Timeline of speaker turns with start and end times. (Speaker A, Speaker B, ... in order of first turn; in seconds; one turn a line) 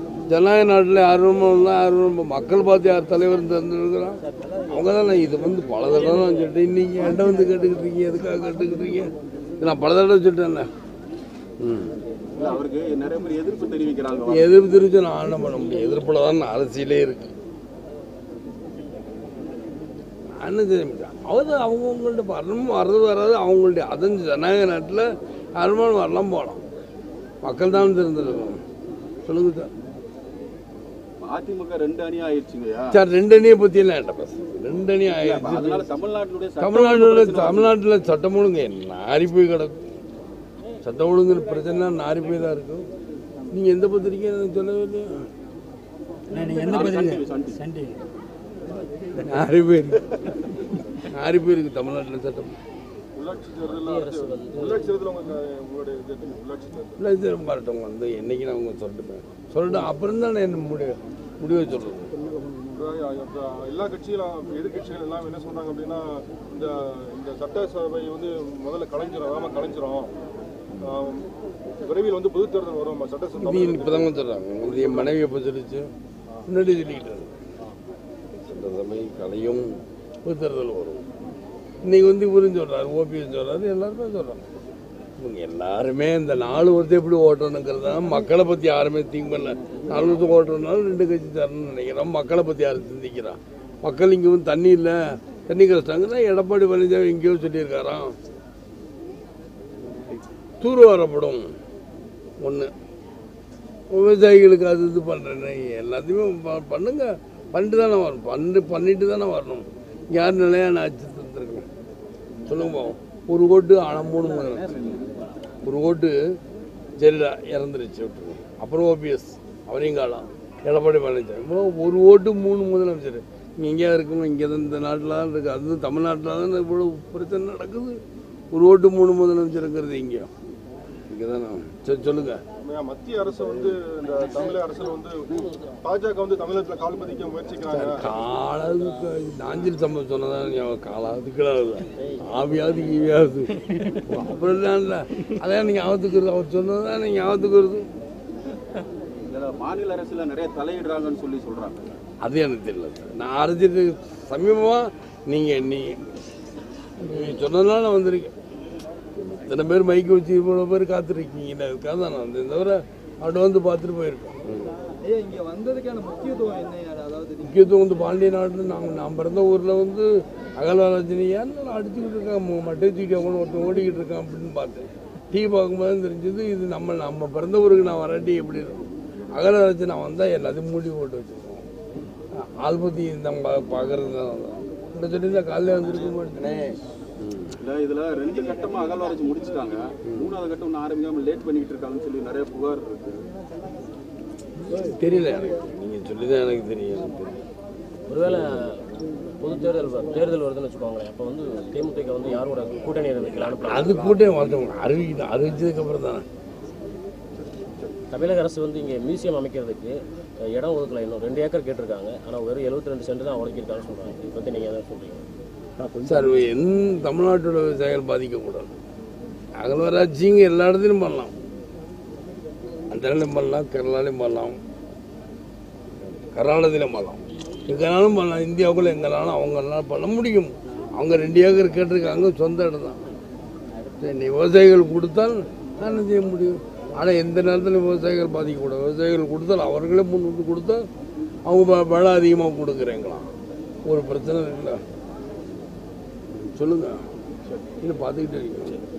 Speaker A: 0.2-10.7
Speaker A: 11.6-12.0
Speaker B: 12.3-14.6
Speaker A: 14.3-17.3
Speaker A: 20.4-26.6
Speaker A: 27.4-28.6
Speaker A: 29.2-29.7
Speaker B: 31.2-33.0
Speaker A: 32.9-35.9
Speaker B: 35.2-37.7
Speaker A: 36.6-39.8
Speaker A: 40.8-42.9
Speaker A: 43.5-45.3
Speaker C: 46.3-46.6
Speaker B: 46.3-47.8
Speaker A: 49.1-50.3
Speaker A: 51.0-52.6
Speaker D: 53.2-57.0
Speaker E: 53.6-54.9
Speaker A: 57.0-62.1
Speaker D: 62.7-70.1
Speaker D: 70.8-74.1
Speaker A: 73.4-75.9
Speaker A: 76.5-77.3
Speaker A: 78.4-81.1
Speaker A: 81.8-84.4
Speaker A: 85.2-98.1
Speaker A: 100.6-101.5
Speaker A: 102.4-102.7
Speaker A: 103.9-111.7
Speaker A: 112.4-115.0
Speaker A: 115.6-116.2
Speaker A: 117.0-128.0
Speaker A: 128.5-130.3
Speaker A: 131.1-132.4
Speaker D: 132.6-138.0
Speaker A: 137.7-147.9
Speaker B: 149.2-151.9
Speaker A: 152.2-156.0
Speaker A: 157.0-158.3
Speaker A: 159.2-164.8
Speaker C: 165.0-167.4
Speaker A: 167.4-181.7
Speaker A: 182.3-187.6
Speaker B: 187.6-193.2
Speaker A: 194.7-197.4
Speaker E: 198.1-198.8
Speaker A: 198.2-198.6
Speaker E: 199.4-204.3
Speaker A: 203.3-206.2
Speaker E: 208.1-210.0
Speaker E: 210.5-215.2
Speaker A: 215.9-218.7
Speaker A: 219.6-221.3
Speaker A: 222.9-224.6
Speaker A: 226.3-233.0
Speaker A: 234.0-240.8
Speaker A: 241.4-243.3
Speaker A: 243.9-244.8
Speaker A: 246.3-247.0
Speaker A: 247.8-248.8